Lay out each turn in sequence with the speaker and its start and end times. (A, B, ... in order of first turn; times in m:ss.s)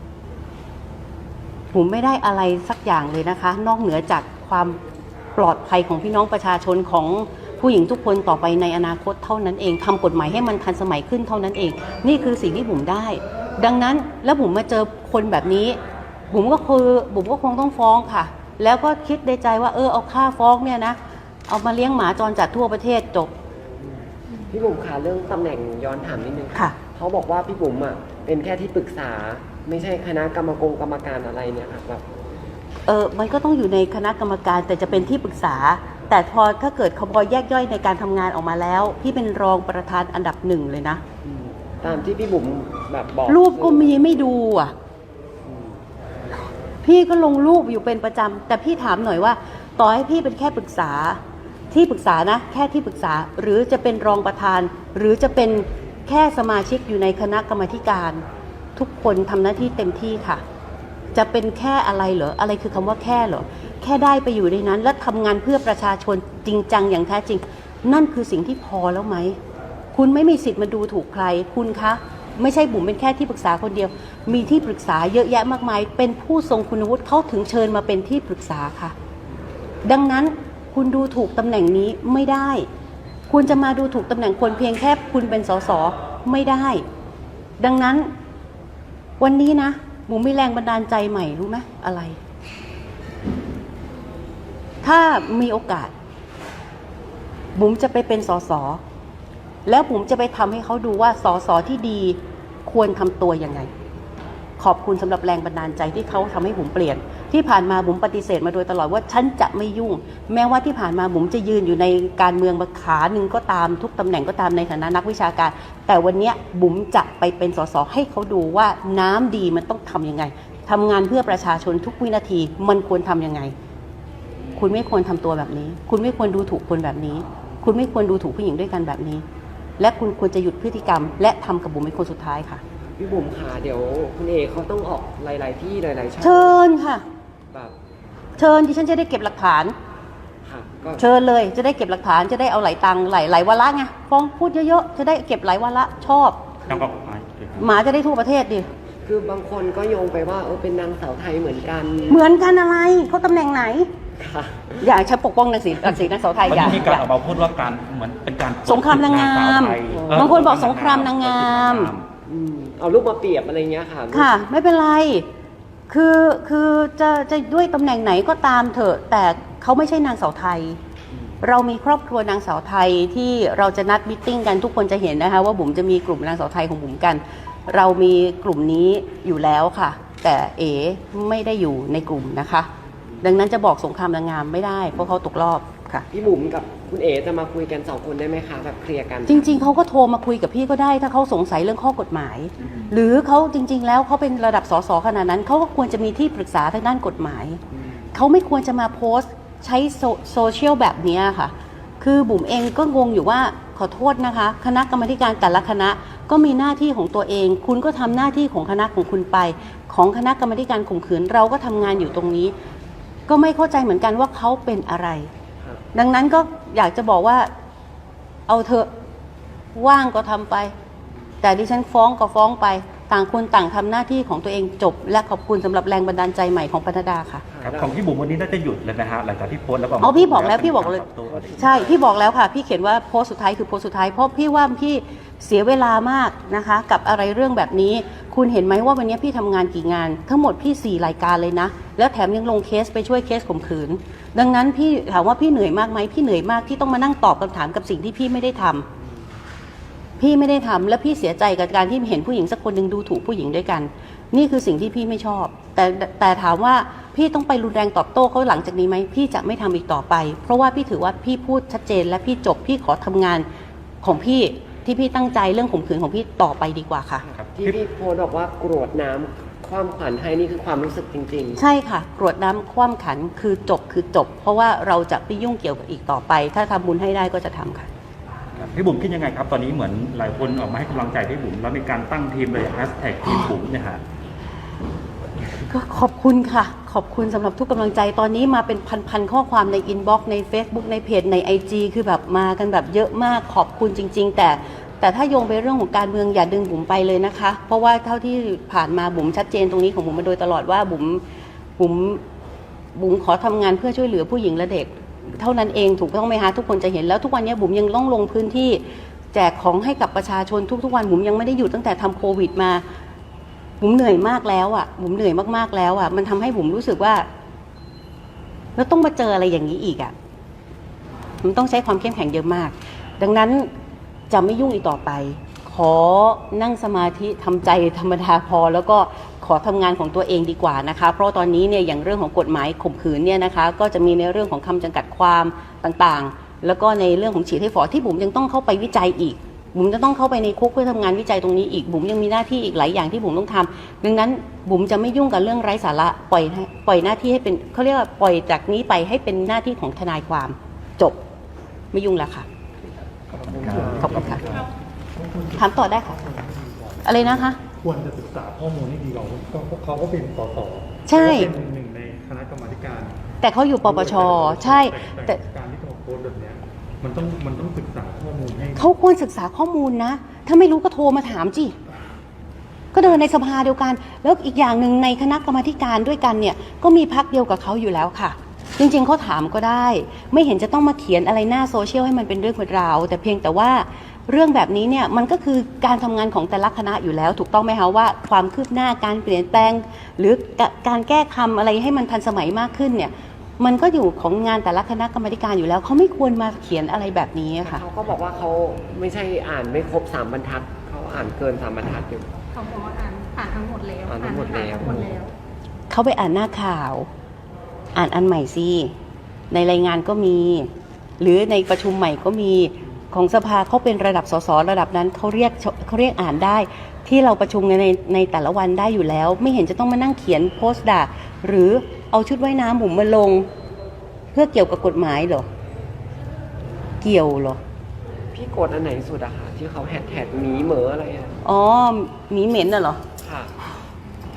0:01.7-0:04.8 A
0:05.4-0:15.8 A
0:16.3-0:23.3 A
0:24.5-0:32.0 B
0:32.9-0:41.0 A
0:41.2-0:44.0 B
0:43.3-0:44.7 A
0:45.4-0:45.8 B
0:46.8-0:51.2 A
0:51.7-0:58.2 A
0:58.8-1:00.4 A
1:01.1-1:09.4 A
1:09.9-1:18.9 A
1:19.8-1:22.7 A
1:23.3-1:26.8 A
1:27.6-1:28.1 A
1:29.2-1:32.2 A
1:34.8-1:35.9 A
1:37.6-1:38.8 A
1:39.7-1:43.7 A
1:44.6-2:03.5 A
2:04.6-2:09.2 A
2:09.8-2:12.6 A
2:13.0-2:16.6 B
2:16.2-2:17.0 A
2:18.4-2:19.8 A
2:20.4-2:21.0 B
2:21.0-2:26.4 A
2:26.7-2:27.7 C
2:27.6-2:28.7 A
2:29.1-2:32.3 B
2:32.1-2:33.9 A
2:34.2-2:34.8 B
2:34.8-2:37.1 A
2:36.4-2:42.1 C
2:38.7-2:41.9 A
2:39.9-2:40.3 B
2:42.3-2:44.3 B
2:44.1-2:45.3 A
2:45.9-2:50.8 A
2:51.1-2:51.4 B
2:51.4-3:02.7 A
3:03.2-3:06.1 A
3:06.1-3:09.4 B
3:09.3-3:17.6 A
3:18.1-3:32.5 A
3:33.3-3:35.3 A
3:35.9-3:37.5 A
3:38.5-3:38.9 A
3:39.8-3:40.7 A
3:41.4-3:47.4 A
3:47.5-3:47.9 B
3:47.6-3:51.8 C
3:50.0-3:51.0 A
3:51.3-3:52.0 B
3:51.6-4:08.9 A
4:10.2-4:23.5 A
4:24.0-4:27.3 A
4:27.2-4:31.6 B
4:27.4-4:27.8 C
4:31.6-4:37.9 A
4:38.6-4:44.0 C
4:45.7-5:01.2 A
5:01.8-5:02.2 A
5:03.0-5:12.8 A
5:13.8-5:17.3 A
5:18.8-5:20.1 A
5:21.4-5:23.7 A
5:24.3-5:51.2 A
5:51.9-5:52.5 A
5:52.8-5:54.4 C
5:53.3-6:03.2 D
5:53.7-5:54.2 B
5:54.0-5:54.4 A
5:54.3-5:54.7 E
5:55.6-5:56.2 A
5:57.0-5:57.6 A
6:01.1-6:01.5 A
6:03.4-6:05.4 A
6:03.8-6:08.9 D
6:08.8-6:11.8 A
6:12.9-6:37.8 A
6:37.6-6:42.3 B
6:42.5-6:45.3 E
6:44.1-6:45.2 B
6:45.9-6:47.1 A
6:48.0-6:48.9 A
6:49.5-6:50.7 A
6:51.2-7:03.5 A
7:04.3-7:05.5 A
7:07.0-7:07.6 A
7:08.3-7:11.4 B
7:11.4-7:13.0 A
7:13.2-7:13.5 B